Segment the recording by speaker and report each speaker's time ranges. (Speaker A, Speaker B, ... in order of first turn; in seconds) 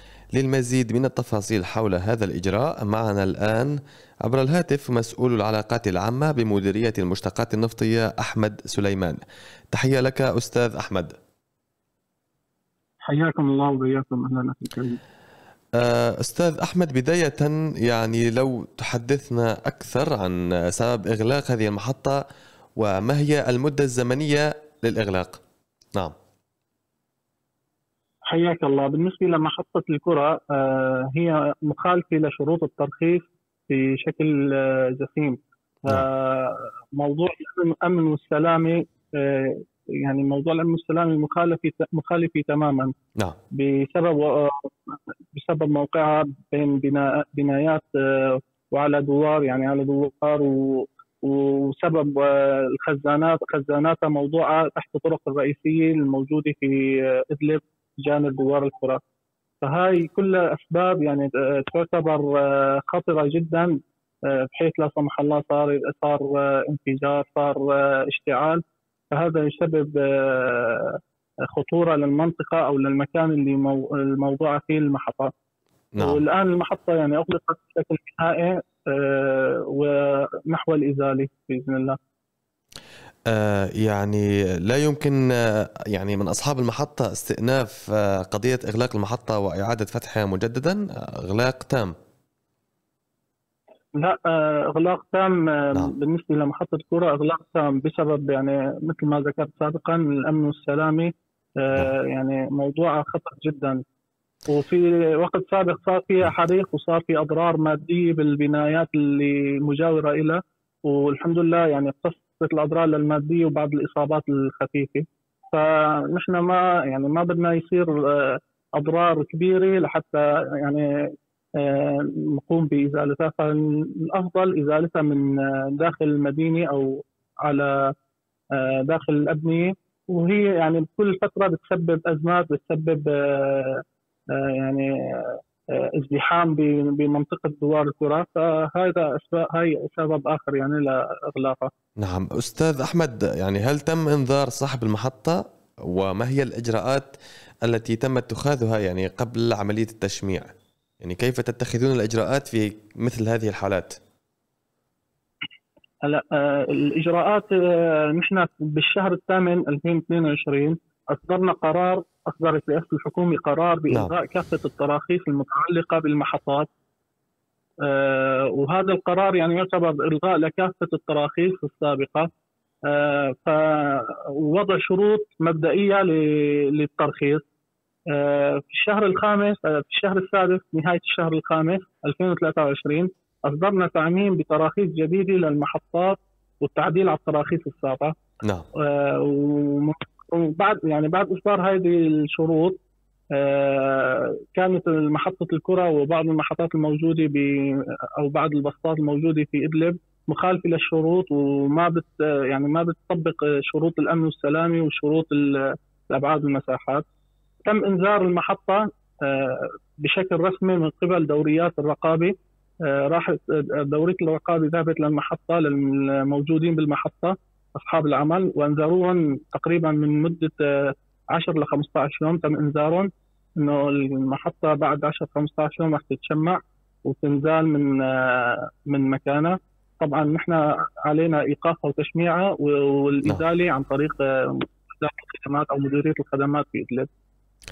Speaker A: 0.3-9.2, 9.7-11.2, 15.8-22.2, 22.8-25.4, 75.9-76.2, 83.3-91.9, 142.0-147.1, 147.7-154.0
Speaker B: 13.0-15.0, 28.3-42.9, 43.5-59.0, 59.6-63.8, 64.3-75.3, 76.0-82.0, 94.0-103.8, 104.5-120.8, 121.6-127.9, 128.6-133.8, 134.3-141.7, 156.1-166.7, 167.8-172.3, 172.9-177.4, 178.1-188.1, 188.8-192.8, 193.3-207.0, 207.7-212.3, 212.8-237.1